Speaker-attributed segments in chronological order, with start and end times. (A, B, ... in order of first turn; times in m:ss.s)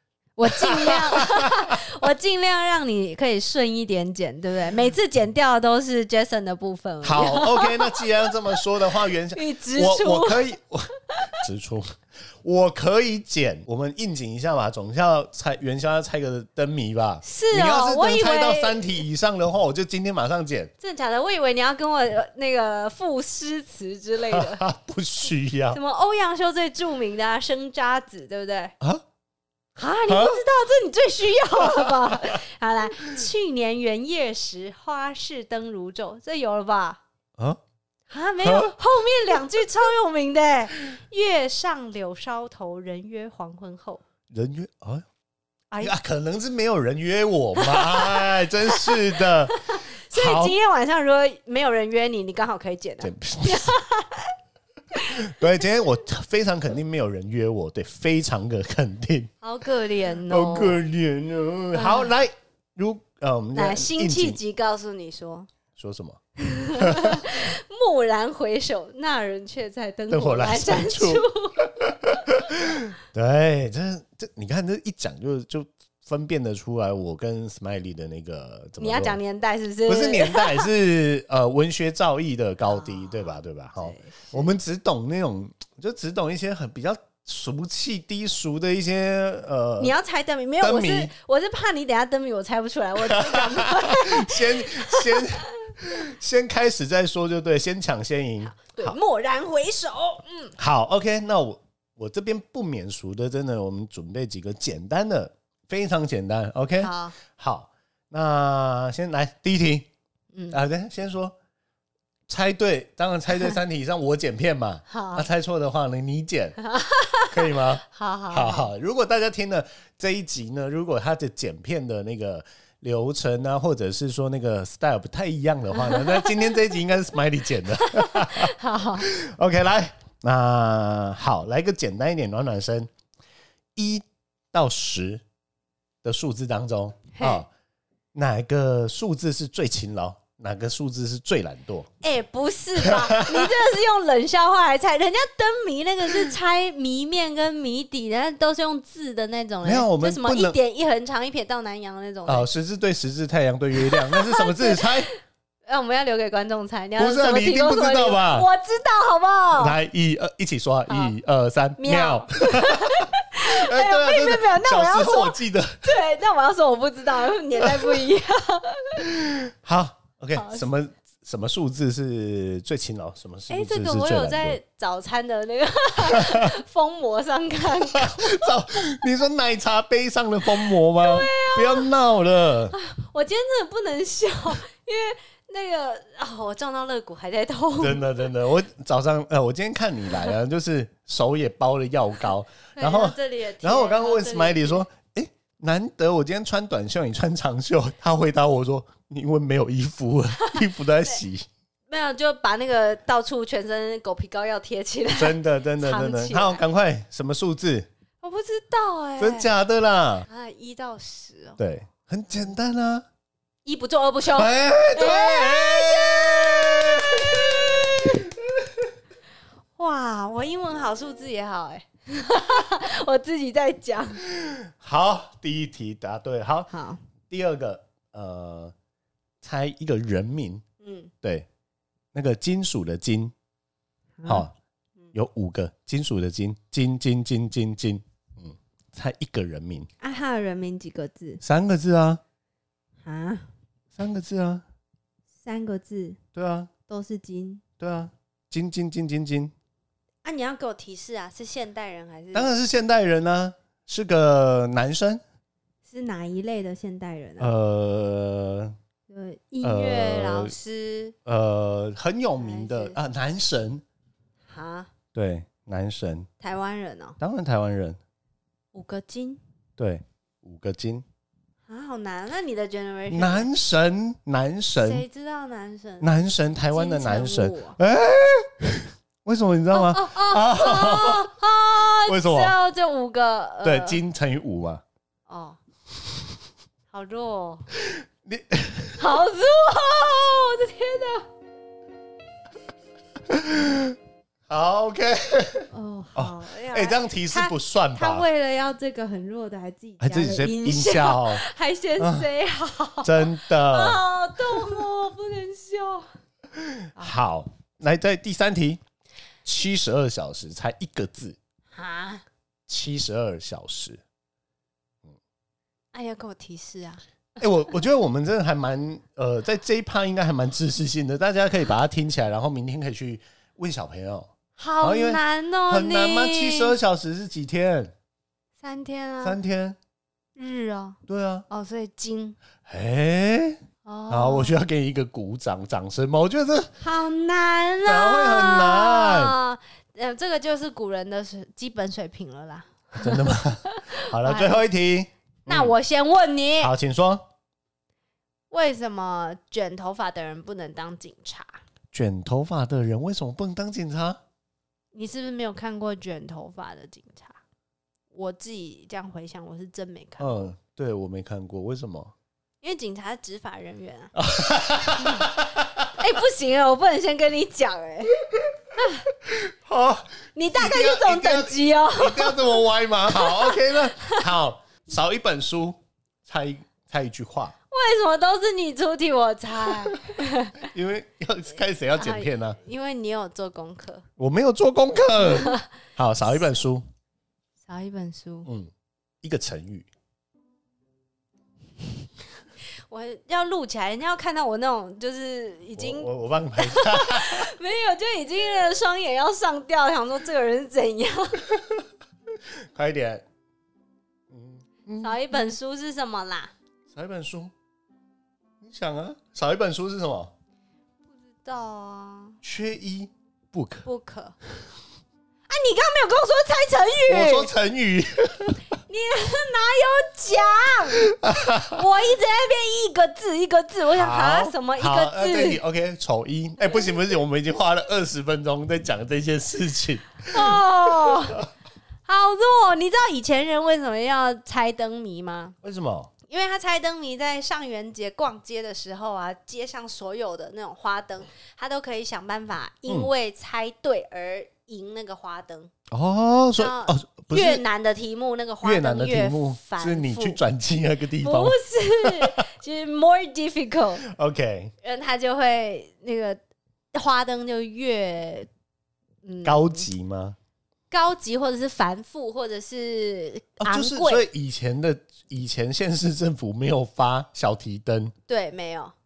0:00.4-0:08.6 A
0:00.5-0:01.8 B
0:07.0-0:20.7 B
0:09.3-0:10.5 A
0:11.1-0:11.4 A
0:17.2-0:19.0 A
0:20.8-0:24.6 A
0:24.3-0:25.8 B
0:25.7-0:28.7 A
0:29.8-0:37.0 A
0:30.1-0:30.4 B
0:31.6-0:32.3 B
0:38.1-0:44.0 A
0:38.4-0:38.7 B
0:44.3-0:45.0 B
0:45.8-0:49.6 B
0:47.6-0:54.3 A
0:50.1-0:50.6 B
0:53.0-0:53.7 B
0:54.9-0:55.5 A
0:55.1-0:59.3 B
0:59.4-1:00.8 A
1:00.3-1:04.4 B
1:01.7-1:02.1 A
1:03.5-1:05.5 A
1:05.7-1:06.2 B
1:06.4-1:11.6 A
1:06.7-1:07.4 B
1:10.1-1:19.2 B
1:18.8-1:20.7 A
1:19.9-1:29.9 B
1:22.6-1:24.5 A
1:29.8-1:36.0 A
1:30.6-1:31.1 B
1:33.0-1:39.0 B
1:38.4-1:40.5 A
1:40.6-1:49.9 B
1:46.8-1:47.1 A
1:50.3-1:50.6 A
1:50.5-1:51.3 B
1:52.3-1:56.6 B
1:54.9-1:55.3 A
1:56.6-1:58.7 A
1:57.3-2:12.9 B
2:05.8-2:06.5 A
2:07.8-2:09.1 A
2:13.8-2:15.2 B
2:16.0-2:17.5 B
2:17.1-2:17.4 A
2:18.1-2:21.9 B
2:22.0-2:32.5 A
2:22.8-2:23.5 B
2:29.6-2:30.6 B
2:32.2-2:35.1 B
2:33.8-2:39.8 A
2:37.0-2:38.5 B
2:39.6-2:45.9 B
2:40.9-2:41.1 A
2:41.8-2:49.1 A
2:47.6-2:48.0 B
2:49.0-2:54.6 B
2:50.3-2:50.7 A
2:53.5-2:58.6 A
2:56.1-2:56.5 B
2:57.9-3:02.8 B
3:00.6-3:01.9 A
3:02.7-3:08.2 A
3:07.8-3:21.5 B
3:12.8-3:14.8 A
3:20.4-3:21.2 A
3:21.9-3:26.6 A
3:25.1-3:27.9 B
3:28.2-3:29.5 A
3:29.2-3:30.3 B
3:30.3-3:31.6 A
3:31.6-3:33.0 B
3:33.6-3:38.2 A
3:34.3-3:38.8 B
3:39.8-3:44.2 A
3:44.2-3:46.7 B
3:46.7-3:47.0 A
3:47.3-3:48.7 B
3:49.4-3:50.6 B
3:50.8-3:51.1 A
3:51.2-3:51.5 B
3:52.1-3:53.3 B
3:54.2-3:54.5 A
3:55.1-3:59.9 B
4:00.0-4:01.4 A
4:01.4-4:02.2 B
4:03.0-4:03.5 A
4:04.0-4:04.6 B
4:05.4-4:06.2 A
4:06.3-4:06.7 B
4:06.9-4:07.6 A
4:07.8-4:09.5 B
4:10.2-4:12.5 A
4:12.3-4:15.2 B
4:15.8-4:17.5 A
4:17.4-4:18.8 B
4:19.1-4:21.1 A
4:19.6-4:20.5 B
4:21.2-4:23.8 B
4:22.4-4:23.0 A
4:24.5-4:24.9 A
4:25.1-4:26.3 B
4:26.4-4:27.2 A
4:27.2-4:28.0 B
4:28.7-4:29.4 A
4:29.8-4:31.0 B
4:31.7-4:33.5 A
4:33.1-4:35.0 B
4:34.8-4:36.1 A
4:36.0-4:42.5 B
4:36.7-4:37.8 A
4:39.7-4:44.0 A
4:43.6-4:44.8 B
4:45.3-4:45.6 A
4:46.9-4:47.7 A
4:47.7-4:49.0 B
4:49.0-4:51.3 A
4:53.3-4:54.0 B
4:54.5-4:58.2 B
4:55.7-5:06.1 A
5:00.0-5:01.4 B
5:02.0-5:02.3 B
5:03.0-5:04.8 B
5:06.5-5:08.8 B
5:09.4-5:11.4 B
5:11.7-5:12.2 A
5:12.7-5:14.0 B
5:15.9-5:17.0 A
5:17.4-5:27.9 B
5:24.6-5:26.8 A
5:28.6-5:29.4 A
5:29.2-5:29.8 B
5:30.4-5:32.4 A
5:31.1-5:31.4 B
5:32.6-5:36.7 B
5:33.8-5:34.6 A
5:36.8-5:44.6 A
5:37.8-5:39.3 B
5:43.0-5:45.7 B
5:45.5-5:46.7 A
5:46.6-5:47.2 B
5:48.5-5:51.6 A
5:51.9-5:54.2 B
5:54.9-5:57.4 A
5:58.1-6:00.4 A
6:00.2-6:02.1 B
6:02.6-6:04.1 A
6:04.1-6:05.9 B
6:05.9-6:08.2 A
6:08.8-6:09.1 A
6:09.2-6:17.5 B
6:10.3-6:14.2 A
6:17.7-6:20.6 A
6:19.7-6:20.0 B
6:20.6-6:22.6 B
6:21.9-6:24.0 A
6:24.2-6:26.8 B
6:25.2-6:25.7 A
6:27.6-6:28.5 A
6:28.4-6:28.7 B
6:29.2-6:29.9 B
6:32.9-6:41.4 A
6:35.8-6:37.5 B
6:41.5-6:41.8 B
6:42.5-6:43.2 B
6:44.3-6:45.2 B
6:45.0-6:46.5 A
6:46.9-6:47.5 B
6:48.6-6:50.3 B
6:51.1-6:52.4 A
6:52.4-6:53.8 B
6:53.8-6:54.4 A
6:55.5-6:57.5 A
6:57.1-6:58.6 B
6:58.8-7:05.6 A
7:01.0-7:01.8 B
7:03.9-7:11.4 B
7:10.3-7:11.4 A
7:12.0-7:15.6 A
7:15.6-7:16.1 B
7:16.3-7:25.7 A
7:25.9-7:27.6 B
7:26.6-7:30.4 A
7:28.6-7:32.4 B
7:31.2-7:34.0 A
7:34.0-7:34.7 B
7:34.8-7:36.4 A
7:36.9-7:38.5 A
7:39.2-7:39.8 A
7:39.4-7:40.4 B
7:40.9-7:44.2 A
7:43.6-7:48.1 B
7:48.3-7:48.9 A